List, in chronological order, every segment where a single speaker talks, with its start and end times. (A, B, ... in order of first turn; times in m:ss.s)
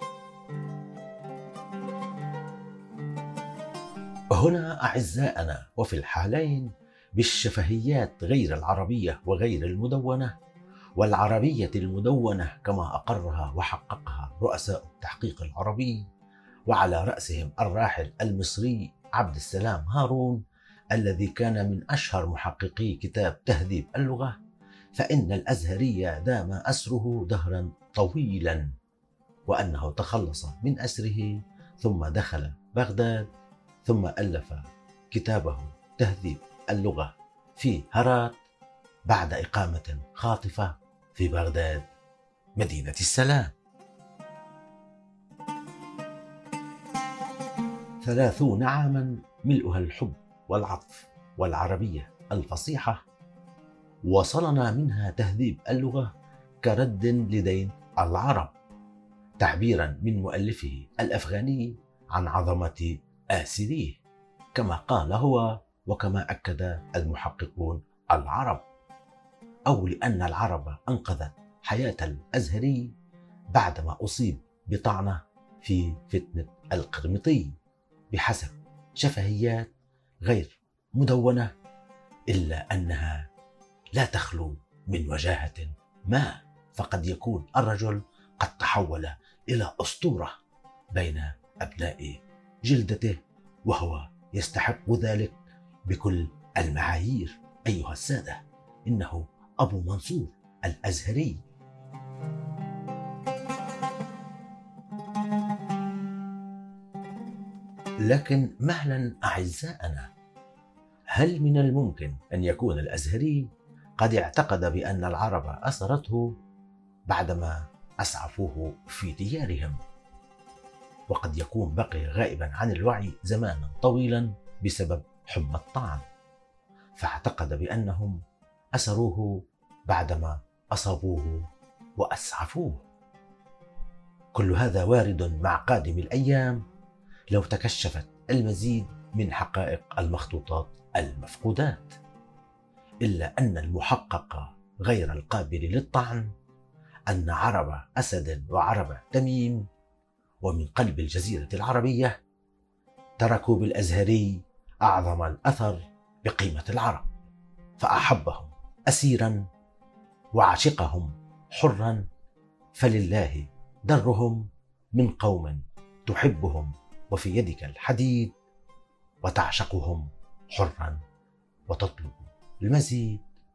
0:04.3-0:10.3 A
0:11.0-0:16.0 A
0:16.7-0:20.4 A
0:20.9-0:24.3 A
0:24.9-0:28.6 A
0:29.5-0:33.3 A
0:33.8-0:38.4 A
0:39.1-0:41.9 A
0:42.6-0:43.5 A
0:48.0-0:53.0 A
0:54.1-0:56.1 A
0:56.6-0:58.5 A
0:59.4-1:04.0 A
1:04.5-1:08.6 A
1:09.7-1:12.9 A
1:13.5-1:17.5 A
1:18.1-1:19.7 A
1:20.2-1:21.5 A
1:22.3-1:23.2 A
1:23.9-1:30.4 A
1:30.9-1:35.4 A
1:35.9-1:41.4 A
1:48.1-1:50.1 A
1:51.1-1:53.5 A
1:54.0-1:56.3 A
1:57.1-1:59.8 A
2:01.1-2:06.0 A
2:07.0-2:08.2 A
2:08.8-2:09.3 A
2:09.9-2:11.4 A
2:12.0-2:12.8 A
2:14.3-2:16.6 A
2:17.3-2:22.0 A
2:23.0-2:26.3 A
2:27.1-2:29.6 A
2:30.4-2:32.1 A
2:33.2-2:37.1 A
2:37.8-2:39.4 A
2:40.4-2:42.0 A
2:42.7-2:44.4 A
2:44.9-2:48.3 A
2:49.2-2:51.0 A
2:51.7-2:53.2 A